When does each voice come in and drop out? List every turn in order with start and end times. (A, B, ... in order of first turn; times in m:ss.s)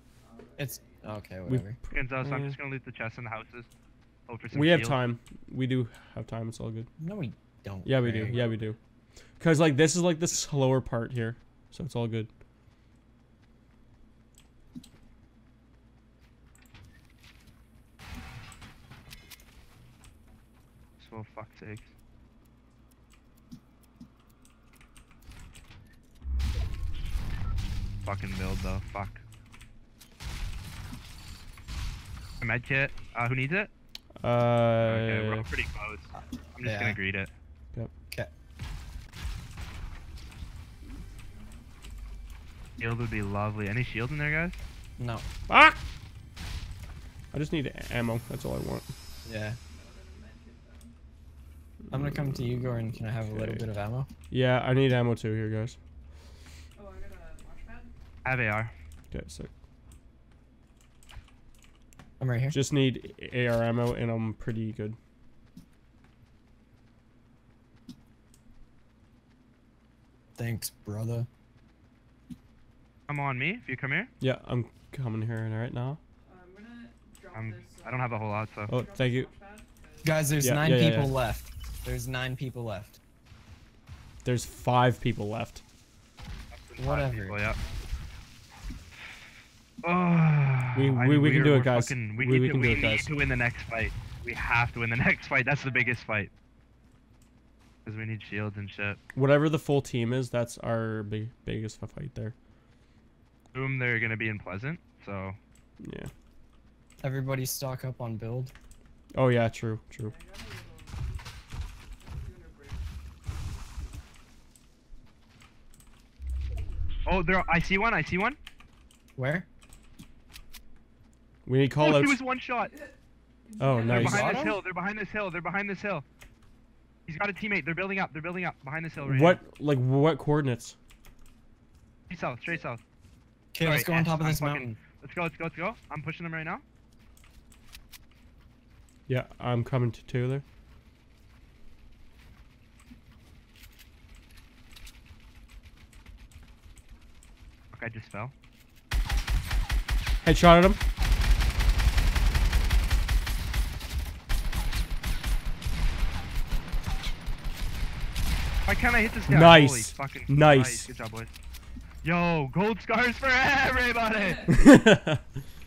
0:00.2-0:01.2 A
0:00.6-0:01.8 B
0:01.5-0:02.6 C
0:01.9-0:03.7 D
0:04.3-0:05.0 D
0:04.5-0:06.9 C
0:07.0-0:08.4 B
0:07.8-0:08.8 C
0:08.3-0:08.8 A
0:09.4-0:12.3 C
0:21.0-0:21.9 D
0:28.0-0:29.2 D
0:32.4-0:33.7 D
0:34.2-0:35.4 C
0:34.8-0:37.3 D
0:36.1-0:36.6 A
0:36.6-0:37.0 B
0:41.1-0:41.7 A
0:42.8-0:44.6 D
0:45.0-0:45.2 B
0:45.5-0:45.8 C
0:47.3-0:48.9 C
0:49.2-0:49.6 B
0:49.7-0:50.9 A
0:51.9-0:53.6 C
0:51.9-0:54.1 B
0:54.3-0:55.8 C
0:56.7-0:57.9 A
0:58.2-0:58.7 D
0:59.1-0:59.5 C
1:02.2-1:02.6 B
1:02.5-1:05.0 C
1:10.4-1:11.3 B
1:13.1-1:14.1 D
1:14.2-1:16.0 C
1:16.2-1:20.8 A
1:17.3-1:18.7 D
1:18.7-1:19.3 C
1:20.0-1:23.0 B
1:20.4-1:21.1 C
1:24.2-1:25.6 C
1:26.5-1:27.6 D
1:26.8-1:27.4 B
1:27.4-1:27.9 A
1:29.8-1:36.3 D
1:30.7-1:33.1 C
1:35.6-1:35.9 A
1:37.8-1:39.0 D
1:39.1-1:42.3 C
1:43.5-1:45.4 D
1:45.8-1:46.1 C
1:47.0-1:48.5 B
1:49.1-1:50.1 C
1:50.0-1:51.3 A
1:52.0-1:53.0 A
1:57.0-1:58.4 D
1:59.2-1:59.4 B
2:01.4-2:02.2 C
2:01.8-2:02.7 D
2:02.6-2:04.5 A
2:03.6-2:04.4 C
2:03.8-2:06.0 D
2:03.9-2:04.6 B
2:07.1-2:09.4 D
2:09.0-2:10.7 C
2:12.1-2:12.8 D
2:13.5-2:14.8 B
2:13.6-2:16.6 D
2:19.1-2:20.4 C
2:27.7-2:28.3 D
2:30.2-2:30.8 C
2:38.6-2:41.3 D
2:39.3-2:40.9 C
2:42.0-2:44.5 D
2:44.1-2:44.6 A
2:44.5-2:45.2 C